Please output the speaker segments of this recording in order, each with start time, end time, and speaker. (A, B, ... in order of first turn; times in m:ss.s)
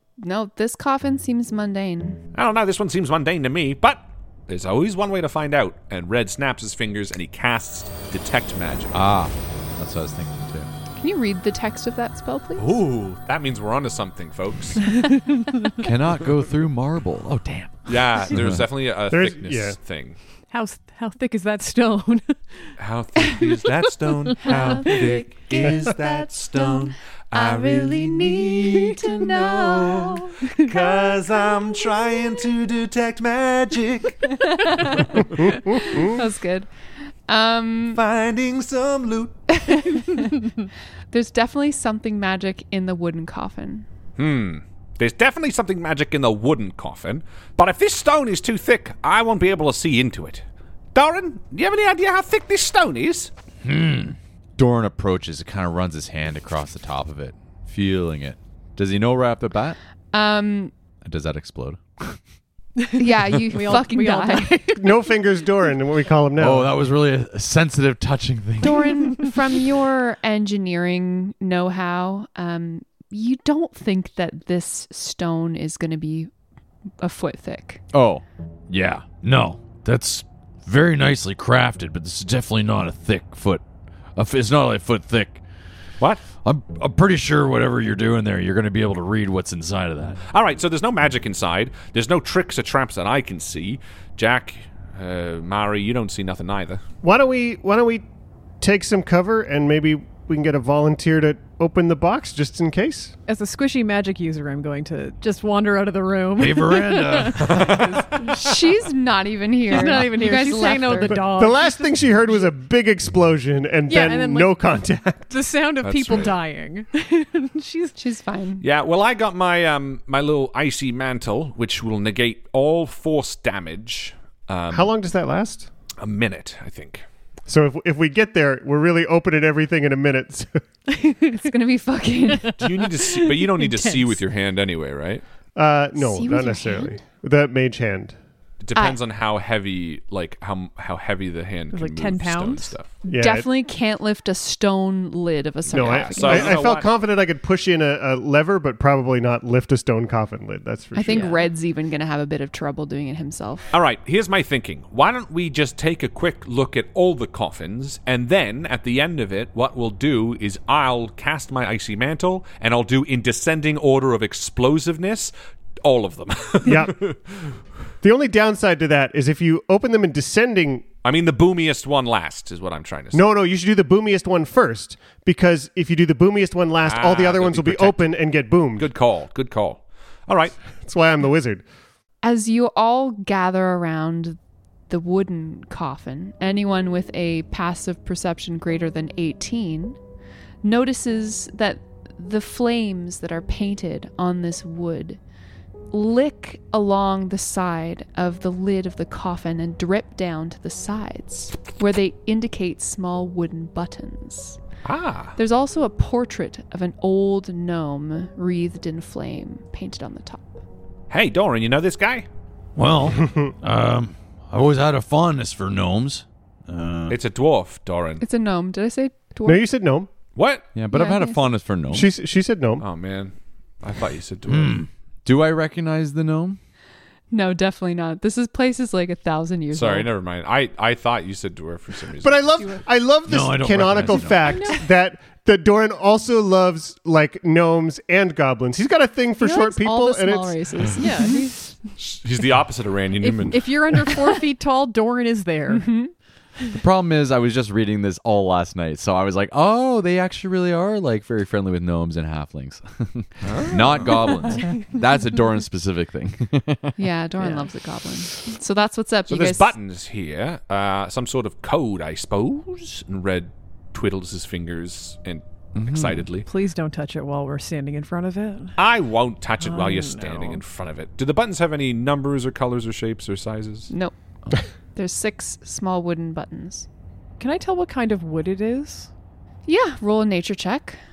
0:00.2-0:02.2 A
0:02.3-0:08.9 B
0:08.9-0:10.7 C
0:11.0-0:12.8 A
0:12.6-0:14.8 B
0:14.9-0:15.7 D
0:15.8-0:18.6 C
0:17.9-0:20.2 B
0:19.1-0:19.8 E
0:20.5-0:22.7 D
0:22.8-0:35.2 B
0:24.3-0:24.6 D
0:24.4-0:30.4 A
0:30.4-0:30.7 D
0:30.9-0:31.8 A
0:34.3-0:36.7 A
0:35.4-0:36.2 E
0:37.3-0:38.0 A
0:37.9-0:39.5 B
0:39.5-0:40.3 A
0:41.1-0:43.8 A
0:44.2-0:50.4 B
0:50.9-0:53.3 B
0:53.6-0:54.2 F
0:54.6-0:59.8 C
1:00.1-1:00.7 A
1:01.0-1:02.2 C
1:02.8-1:04.8 D
1:03.0-1:04.7 A
1:04.8-1:06.7 E
1:06.4-1:09.1 C
1:08.6-1:16.3 A
1:17.0-1:17.8 A
1:17.9-1:18.2 C
1:18.7-1:23.6 F
1:24.2-1:25.4 F
1:26.4-1:30.2 F
1:30.3-1:36.8 B
1:37.0-1:38.0 E
1:38.6-1:43.1 E
1:43.3-1:48.4 D
1:46.4-1:47.7 F
1:47.5-1:48.0 B
1:48.2-1:51.2 A
1:49.6-1:52.5 D
1:51.1-1:55.3 E
1:53.9-1:54.7 D
1:55.3-1:58.0 D
1:55.8-1:56.4 B
1:58.0-1:58.6 A
1:58.6-2:04.9 B
2:04.7-2:05.7 E
2:06.0-2:07.0 B
2:07.5-2:10.6 E
2:11.3-2:12.5 A
2:12.4-2:14.2 D
2:12.6-2:15.2 B
2:15.6-2:18.2 E
2:16.0-2:16.9 A
2:18.6-2:22.9 B
2:18.7-2:19.0 A
2:21.7-2:22.8 D
2:23.1-2:23.5 E
2:23.1-2:26.7 A
2:25.7-2:26.9 B
2:25.7-2:31.3 E
2:30.9-2:33.7 A
2:31.0-2:31.5 D
2:33.7-2:47.2 B
2:46.6-2:47.0 E
2:48.0-2:50.8 E
2:51.0-2:53.2 B
2:53.1-2:58.9 E
2:56.8-2:58.2 B
2:58.7-3:00.6 B
3:00.8-3:01.6 E
3:02.2-3:04.4 A
3:04.9-3:10.0 A
3:10.6-3:15.2 A
3:15.9-3:24.6 A
3:24.8-3:25.3 B
3:25.4-3:30.5 A
3:31.1-3:32.2 B
3:32.8-3:37.2 F
3:33.2-3:33.5 E
3:37.1-3:38.2 B
3:38.2-3:39.6 A
3:39.4-3:40.1 E
3:40.4-3:40.6 B
3:40.7-3:42.1 C
3:40.9-3:41.4 A
3:41.9-3:42.8 E
3:42.8-3:44.8 B
3:44.5-3:44.8 F
3:45.2-3:46.6 C
3:47.3-3:50.1 A
3:49.7-3:52.5 B
3:52.2-4:00.8 E
3:53.2-3:54.5 F
3:54.4-3:54.8 D
3:59.4-4:01.5 A
4:00.9-4:01.7 D
4:02.0-4:03.7 B
4:03.2-4:05.9 D
4:05.7-4:06.1 A
4:06.7-4:16.9 C
4:13.4-4:14.5 B
4:17.0-4:19.7 A
4:17.4-4:17.7 D
4:19.3-4:26.5 B
4:25.8-4:26.2 C
4:26.4-4:28.7 D
4:28.8-4:33.9 B
4:29.6-4:30.6 D
4:33.9-4:34.1 A
4:34.9-4:36.9 A
4:37.4-4:39.1 D
4:39.6-4:41.0 A